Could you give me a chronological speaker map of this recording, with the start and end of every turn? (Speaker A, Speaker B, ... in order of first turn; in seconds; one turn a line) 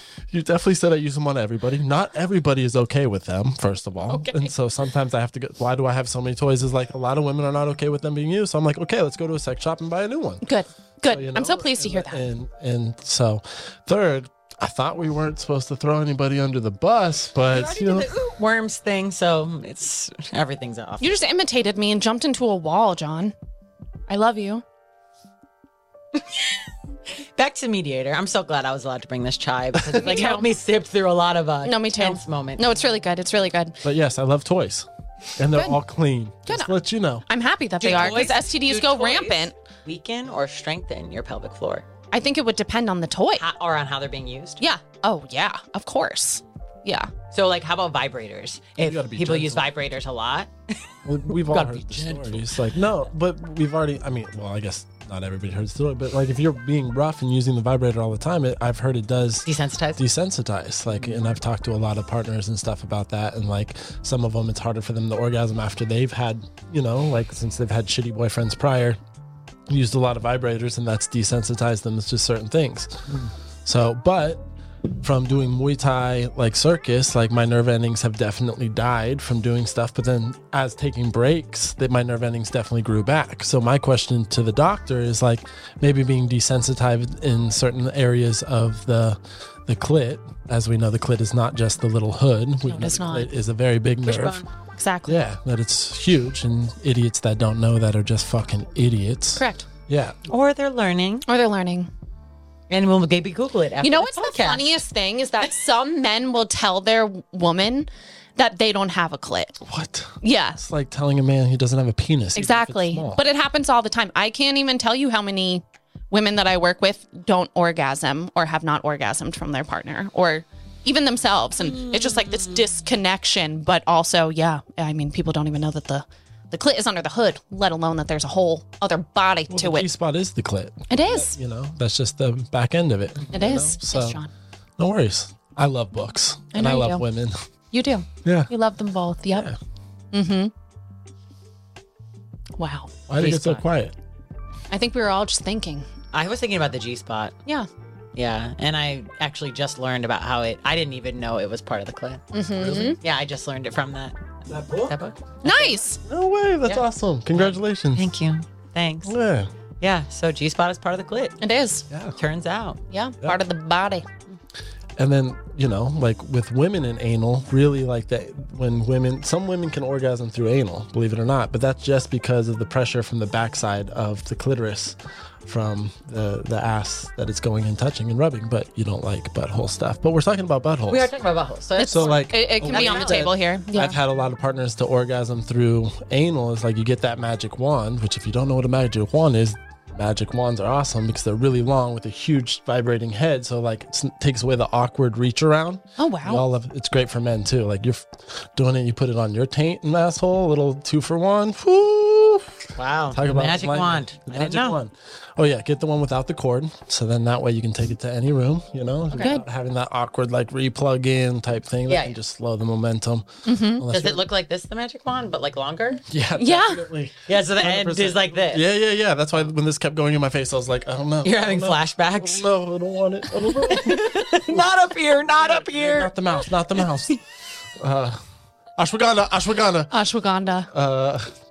Speaker A: 0.3-10.4
Speaker B: 4.1-4.5
Speaker B: 10.4-12.2
Speaker A: 11.0-18.1
Speaker C: 17.5-21.1
Speaker B: 21.0-23.3
Speaker B: 24.1-24.6
Speaker C: 27.4-32.6
Speaker B: 29.9-30.5
Speaker B: 31.6-33.8
Speaker A: 33.8-37.2
Speaker B: 35.5-35.8
Speaker B: 36.5-36.7
Speaker B: 37.2-39.5
Speaker C: 37.8-41.9
Speaker B: 42.1-43.4
Speaker C: 43.4-44.6
Speaker B: 44.6-47.1
Speaker C: 47.3-52.6
Speaker A: 48.8-49.7
Speaker A: 51.0-69.0
Speaker C: 59.5-60.0
Speaker C: 61.0-61.3
Speaker A: 69.7-74.5
Speaker A: 75.0-94.4
Speaker B: 92.6-93.3
Speaker C: 94.0-94.5
Speaker B: 94.7-95.2
Speaker A: 95.1-100.2
Speaker B: 99.4-99.7
Speaker C: 100.3-101.2
Speaker B: 101.2-101.9
Speaker C: 102.7-104.8
Speaker B: 103.8-109.6
Speaker A: 109.6-113.2
Speaker B: 110.2-110.6
Speaker B: 112.3-129.9
Speaker C: 121.7-122.5
Speaker A: 129.5-134.2
Speaker B: 130.9-131.3
Speaker B: 133.3-134.3
Speaker A: 134.8-137.4
Speaker B: 136.5-137.0
Speaker B: 137.7-139.5
Speaker A: 138.2-138.5
Speaker A: 139.3-139.6
Speaker B: 140.1-140.5
Speaker B: 142.6-142.9
Speaker A: 143.1-143.9
Speaker C: 143.2-143.6
Speaker B: 144.7-145.8
Speaker C: 146.1-147.4
Speaker C: 148.2-152.2
Speaker B: 152.3-153.0
Speaker A: 152.6-153.0
Speaker C: 153.0-155.8
Speaker A: 154.5-154.9
Speaker B: 155.4-156.0
Speaker A: 156.0-158.1
Speaker C: 156.6-159.2
Speaker A: 159.0-159.5
Speaker C: 159.8-161.4
Speaker B: 161.4-161.8
Speaker A: 161.9-162.2
Speaker C: 162.2-162.8
Speaker B: 162.9-164.0
Speaker A: 165.0-181.1
Speaker C: 180.9-183.3
Speaker B: 181.8-183.9
Speaker A: 181.8-214.2
Speaker B: 196.0-196.4
Speaker C: 202.8-204.8
Speaker B: 209.1-209.4
Speaker C: 211.9-212.2
Speaker B: 213.4-213.8
Speaker C: 213.9-216.0
Speaker A: 216.1-224.7
Speaker B: 216.4-216.8
Speaker C: 217.3-218.6
Speaker C: 221.2-222.4
Speaker C: 223.3-226.1
Speaker A: 225.4-227.2
Speaker C: 226.7-227.1
Speaker A: 227.8-228.2
Speaker A: 228.8-229.9
Speaker B: 229.9-230.7
Speaker A: 230.7-231.3